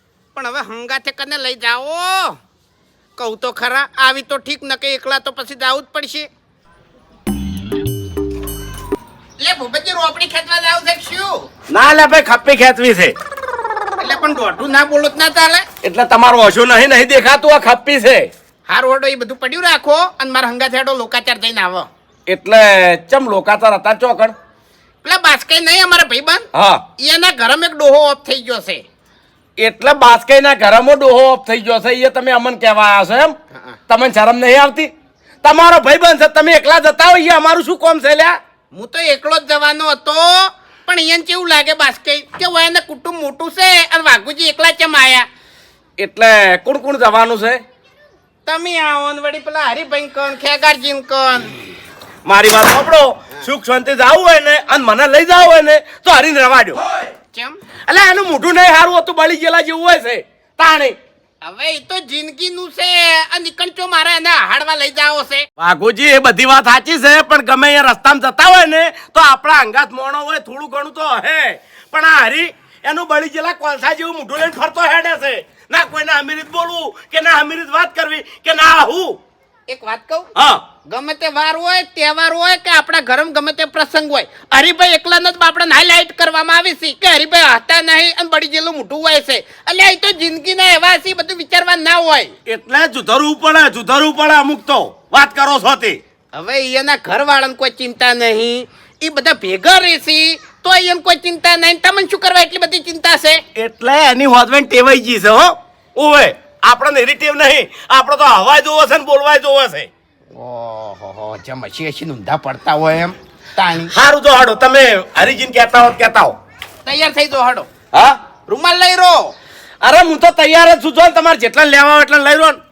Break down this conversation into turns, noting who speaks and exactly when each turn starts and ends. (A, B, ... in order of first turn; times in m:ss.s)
0:00.3-0:02.4 A
0:03.2-0:06.3 A
0:09.4-0:11.4 A
0:11.7-0:13.1 B
0:14.0-0:15.6 A
0:15.8-0:18.3 B
0:18.7-0:21.9 A
0:22.3-0:24.3 B
0:25.0-0:26.4 A
0:26.5-0:26.8 B
0:27.0-0:28.8 A
0:29.6-0:33.4 B
0:33.9-0:34.9 B
0:35.4-0:38.4 B
0:38.7-0:45.3 A
0:46.0-0:47.6 B
0:48.4-0:51.5 A
0:52.2-0:56.8 B
0:57.3-0:57.6 A
0:57.9-1:01.0 B
1:01.4-1:05.4 A
1:05.6-1:19.2 B
1:19.7-1:20.3 A
1:20.4-1:20.6 B
1:20.9-1:32.3 A
1:32.4-1:36.0 B
1:36.3-1:43.4 A
1:43.6-1:49.9 B
1:50.3-1:53.9 A
1:53.8-1:56.4 B
1:56.8-1:57.7 A
1:57.9-1:58.2 B
1:58.5-1:59.3 A
1:59.8-2:02.6 B